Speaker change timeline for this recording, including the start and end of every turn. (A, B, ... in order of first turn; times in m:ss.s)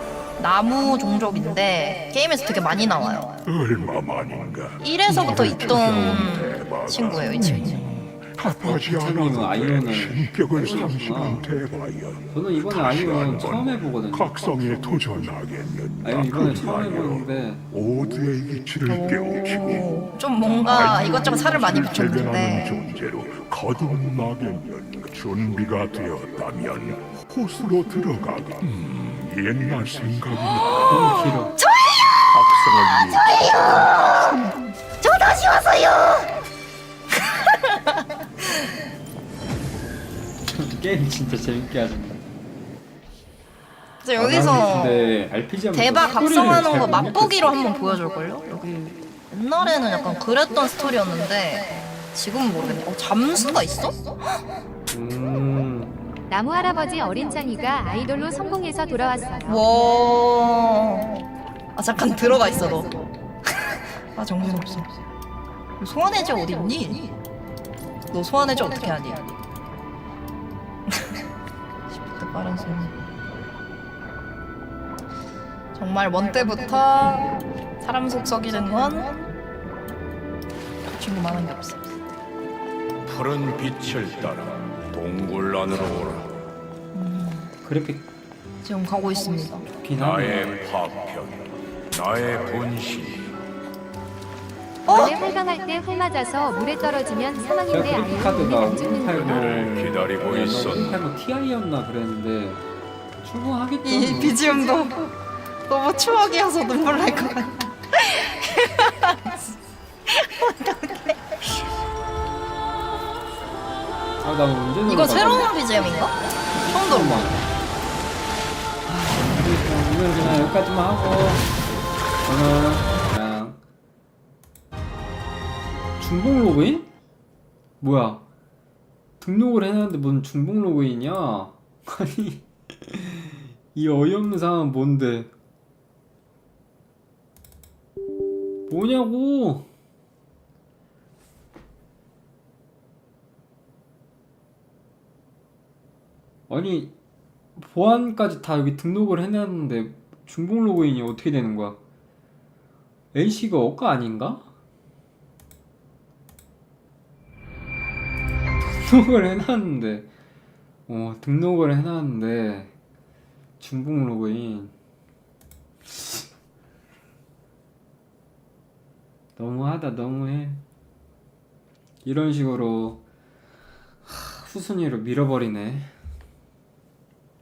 0:00.4-0:03.3 A
0:03.4-0:20.0 B
0:04.8-0:07.8 A
0:08.6-0:11.4 C
0:12.3-0:14.4 C
0:16.0-0:17.6 C
0:18.9-0:22.8 A
0:20.6-0:31.5 B
0:30.8-0:31.6 C
0:31.2-0:32.3 A
0:32.3-0:34.3 B
0:33.1-0:36.4 A
0:40.5-0:42.2 C
0:44.0-0:45.1 A
0:44.2-0:47.6 C
0:45.7-0:54.0 A
0:54.9-0:56.0 C
0:56.3-0:59.6 D
0:59.4-1:01.2 A
1:01.8-1:03.1 A
1:04.1-1:05.0 A
1:05.8-1:07.1 A
1:08.1-1:09.3 A
1:10.9-1:11.2 A
1:11.9-1:12.9 A
1:15.8-1:19.2 A
1:20.8-1:21.9 A
1:23.0-1:26.3 E
1:26.9-1:27.5 A
1:27.6-1:28.1 C
1:28.6-1:29.7 A
1:29.8-1:30.6 C
1:29.9-1:33.4 E
1:34.9-1:35.2 A
1:34.9-1:39.4 D
1:37.7-1:42.6 C
1:39.0-1:41.0 E
1:43.2-1:44.4 C
1:43.8-1:49.2 A
1:50.1-1:51.5 A
1:54.2-1:56.0 C
1:54.9-1:57.4 A
1:56.6-1:57.5 C
1:58.8-2:01.5 C
2:02.2-2:03.6 C
2:06.0-2:06.9 C
2:07.8-2:08.2 C
2:09.2-2:15.3 C
2:18.7-2:19.7 C
2:26.5-2:26.9 C
2:27.6-2:31.8 C
2:33.1-2:34.4 C
2:38.6-2:40.1 C
2:40.9-2:42.7 C
2:43.6-2:44.7 C
2:49.4-2:50.6 C
2:52.0-2:53.0 C
2:54.0-2:55.9 C